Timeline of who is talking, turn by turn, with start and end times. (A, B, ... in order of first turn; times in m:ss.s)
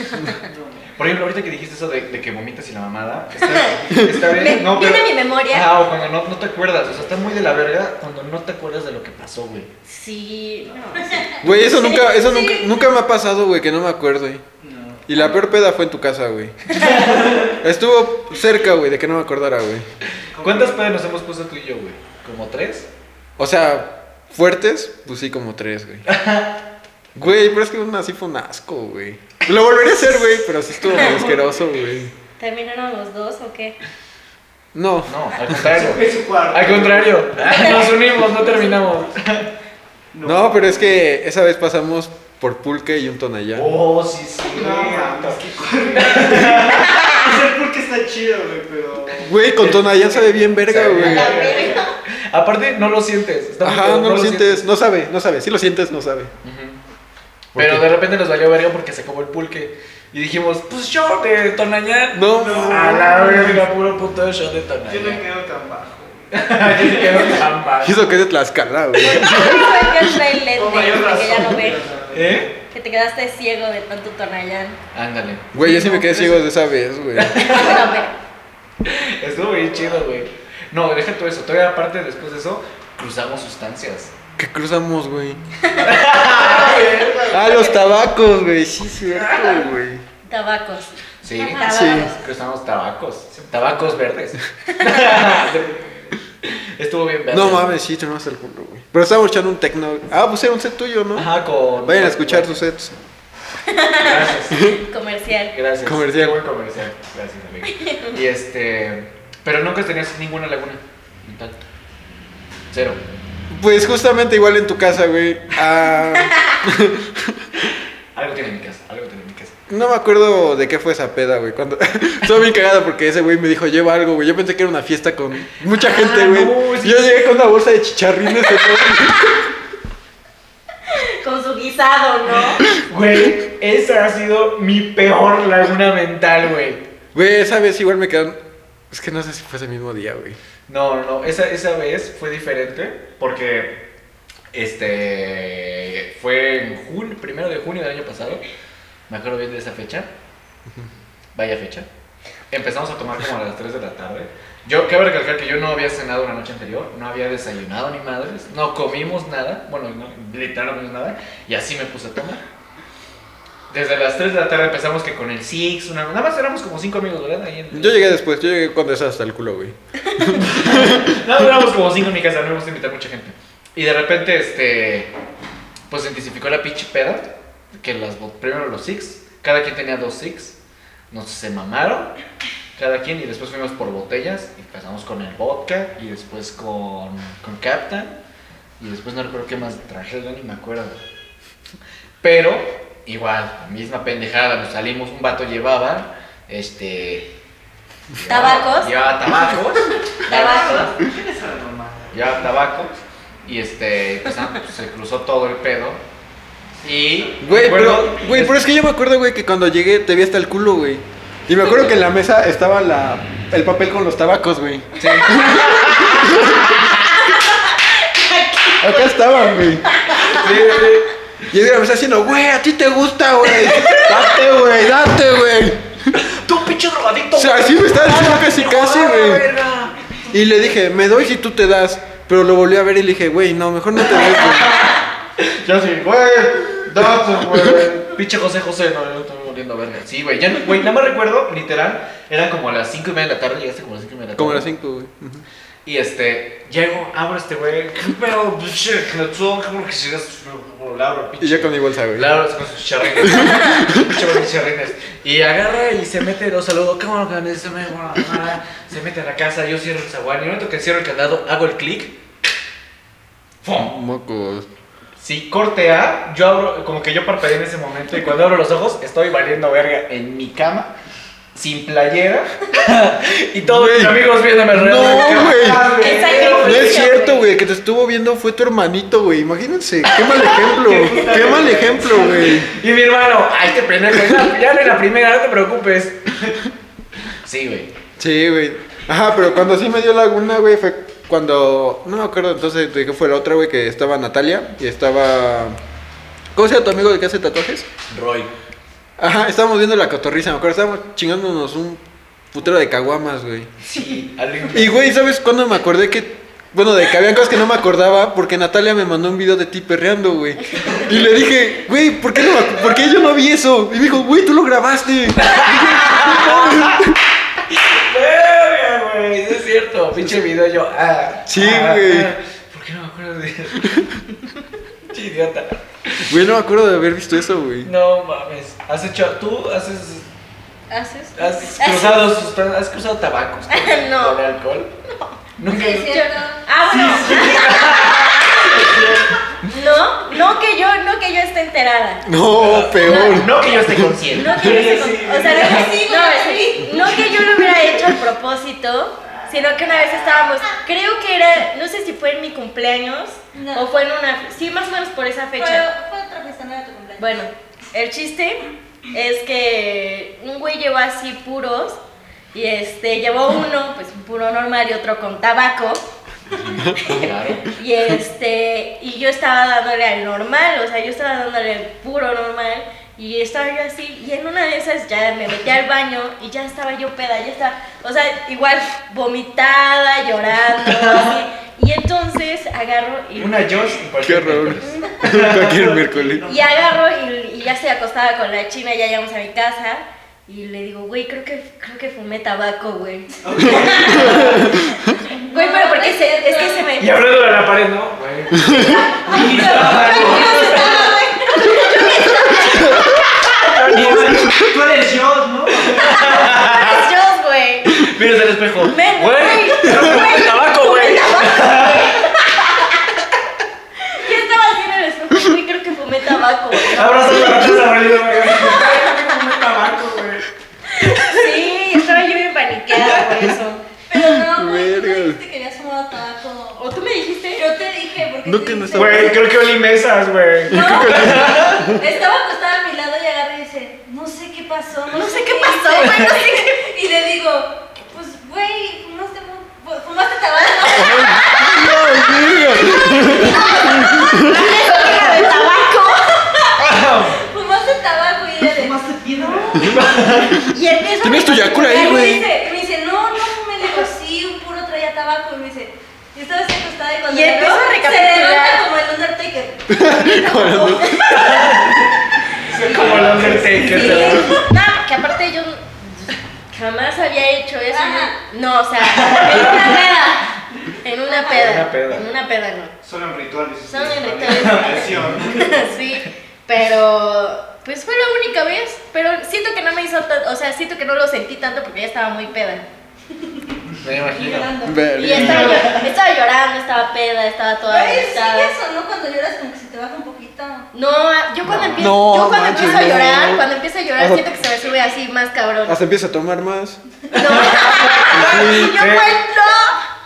0:00.2-0:00.9 A
0:01.0-0:09.7 B
0:03.4-0:05.7 C
0:09.8-0:12.4 C
0:11.1-0:12.7 D
0:11.4-0:14.4 E
0:14.6-0:15.1 A
0:15.1-0:16.7 E
0:16.7-0:17.5 B
0:17.4-0:19.8 E
0:20.3-0:21.0 A
0:20.4-0:22.9 B
0:23.4-0:26.0 E
0:26.0-0:26.6 B
0:27.1-0:32.1 E
0:30.9-0:31.1 C
0:32.4-0:33.8 C
0:34.7-0:35.4 E
0:35.1-0:39.5 B
0:35.6-0:37.7 A
0:37.5-0:38.7 C
0:40.1-0:41.0 A
0:40.2-0:43.7 E
0:43.5-0:47.0 B
0:44.5-0:49.3 A
0:49.2-0:51.5 E
0:49.6-0:54.6 B
0:51.0-0:51.9 C
0:51.1-0:51.8 A
0:53.6-0:56.3 E
0:56.4-0:56.8 B
0:57.5-0:57.8 E
0:57.5-1:05.2 B
1:02.1-1:03.5 E
1:02.3-1:03.6 A
1:04.9-1:07.5 A
1:06.3-1:08.1 B
1:07.8-1:10.1 E
1:09.0-1:11.8 C
1:10.5-1:12.5 A
1:12.1-1:12.5 B
1:12.7-1:14.8 C
1:14.9-1:16.4 B
1:15.5-1:17.6 E
1:17.2-1:17.8 B
1:17.4-1:18.1 C
1:18.8-1:24.1 B
1:19.4-1:20.1 A
1:24.4-1:25.4 E
1:25.8-1:26.9 B
1:26.1-1:27.7 A
1:26.4-1:27.8 C
1:27.2-1:30.0 E
1:29.2-1:29.6 B
1:30.2-1:32.2 C
1:31.2-1:37.8 B
1:31.4-1:31.9 D
1:31.6-1:32.1 E
1:33.4-1:33.8 A
1:37.3-1:41.3 E
1:41.1-1:42.5 B
1:41.8-1:42.9 E
1:43.7-1:45.5 C
1:44.0-1:44.6 B
1:44.5-1:44.8 E
1:45.5-1:51.6 B
1:45.8-1:46.4 E
1:47.7-1:48.1 C
1:52.7-1:53.0 B
1:53.5-1:57.5 E
1:56.2-1:56.6 C
1:58.1-1:59.5 B
1:59.7-2:09.4 E
2:05.7-2:07.3 B
2:10.9-2:12.6 C
2:12.7-2:16.8 B
2:17.1-2:18.4 E
2:18.9-2:20.4 E
2:20.7-2:23.8 B
2:24.5-2:28.4 B
2:29.1-2:30.1 B
2:31.3-2:31.9 B
2:32.5-2:42.4 B
2:43.7-2:48.1 B
2:47.7-2:51.1 E
2:50.4-2:55.1 B
2:55.9-3:00.6 B
3:01.1-3:02.1 B
3:02.8-3:08.2 B
3:08.8-3:11.0 B
3:12.2-3:17.3 B
3:18.2-3:20.9 B
3:18.3-3:18.9 C
3:20.2-3:20.9 C
3:20.3-3:22.5 A
3:22.1-3:22.9 B
3:23.4-3:26.0 B
3:26.8-3:28.6 B
3:27.1-3:27.9 A
3:27.4-3:36.9 E
3:35.0-3:37.0 B
3:37.3-3:39.3 C
3:38.8-3:39.9 E
3:39.9-3:40.5 C
3:40.2-3:41.1 B
3:41.5-3:46.1 E
3:43.6-3:44.1 C
3:46.1-3:49.9 B
3:47.3-3:49.5 E
3:50.3-3:55.0 E
3:54.1-4:04.7 B
3:57.2-3:57.9 E
4:04.4-4:05.4 E
4:05.8-4:22.2 B
4:11.4-4:12.4 E
4:13.2-4:14.2 E
4:23.6-4:23.9 B
4:23.7-4:24.7 E
4:25.2-4:30.9 B
4:31.5-4:36.6 B
4:33.6-4:35.9 E
4:35.1-4:37.0 A
4:36.0-4:37.5 C
4:36.6-4:42.7 E
4:40.6-4:42.6 A
4:42.4-4:46.6 B
4:47.4-4:47.9 B
4:48.2-4:55.8 E
4:56.5-4:57.9 E
4:58.1-4:58.5 B
4:59.2-5:02.0 E
5:02.5-5:03.7 E
5:03.8-5:05.1 B
5:04.7-5:17.2 E
5:15.4-5:17.0 B
5:17.7-5:24.0 B
5:21.4-5:22.3 E
5:25.1-5:26.3 B
5:26.3-5:27.9 E
5:27.8-5:30.3 B
5:30.9-5:32.3 C
5:31.4-5:34.9 B
5:33.7-5:34.4 C
5:35.0-5:38.8 C
5:35.6-5:36.1 B
5:35.7-5:36.6 D
5:36.9-5:39.4 A
5:37.2-5:39.0 B
5:39.7-5:42.2 C
5:42.2-5:44.8 E
5:42.5-5:45.9 B
5:43.0-5:43.5 C
5:44.3-5:55.8 C
5:45.0-5:47.2 D
5:53.5-5:53.9 D
5:55.6-5:57.4 D
5:57.2-6:02.0 C
6:02.5-6:06.0 C
6:06.5-6:07.7 B
6:06.8-6:07.2 E
6:07.0-6:23.8 C
6:20.8-6:21.4 B
6:23.4-6:25.8 B
6:24.2-6:26.4 E
6:24.8-6:25.1 C
6:25.5-6:26.9 A
6:26.5-6:34.8 C
6:33.4-6:34.6 A
6:34.0-6:35.2 E
6:35.2-6:36.9 D
6:35.5-6:37.2 C
6:37.0-6:41.1 B
6:38.5-6:39.0 E
6:38.7-6:42.8 D
6:38.9-6:43.1 C
6:39.2-6:40.7 A
6:42.8-6:43.1 E
6:43.5-6:44.5 B
6:43.8-6:46.4 A
6:44.1-6:44.6 E
6:45.9-6:47.0 B
6:46.1-6:48.1 C
6:47.9-6:52.2 B
6:48.9-6:52.9 C
6:50.0-6:50.4 A
6:54.0-6:57.7 C
6:56.9-6:59.5 B
6:57.0-7:00.4 A
7:00.9-7:03.8 C
7:01.1-7:01.4 B
7:04.1-7:06.8 D
7:04.1-7:05.4 E
7:06.8-7:07.6 C
7:07.5-7:09.4 D
7:08.4-7:09.4 E
7:08.9-7:11.9 B
7:10.7-7:25.5 D
7:10.7-7:12.0 E
7:15.1-7:16.7 C
7:20.9-7:24.6 E
7:21.1-7:21.8 C
7:22.9-7:26.7 C
7:26.8-7:27.4 B
7:27.4-7:29.0 D
7:28.8-7:30.3 A
7:29.8-7:30.6 B
7:30.5-7:32.5 E
7:30.7-7:32.4 C
7:31.8-7:41.7 D
7:37.3-7:38.8 C
7:39.9-7:41.2 E
7:41.1-7:41.4 C
7:41.3-7:42.0 B
7:42.7-7:44.5 A
7:42.7-7:44.5 B
7:42.8-7:44.7 D
7:44.5-7:50.5 C
7:47.9-7:48.4 D
7:49.2-7:49.8 B
7:49.3-7:50.4 D
7:51.0-7:52.9 C
7:51.3-7:51.6 D
7:51.5-7:52.2 B
7:53.0-7:55.9 A
7:53.9-8:02.8 C
7:55.2-7:55.4 B
8:04.0-8:04.7 B
8:04.3-8:05.5 D
8:04.8-8:05.9 E
8:05.1-8:08.8 C
8:05.4-8:06.0 A
8:05.4-8:05.6 B
8:07.8-8:10.9 D
8:10.9-8:16.0 C
8:11.6-8:12.2 B
8:12.0-8:13.6 E
8:14.2-8:14.5 E
8:15.8-8:17.0 E
8:17.3-8:19.4 B
8:17.3-8:20.0 C
8:18.3-8:19.0 E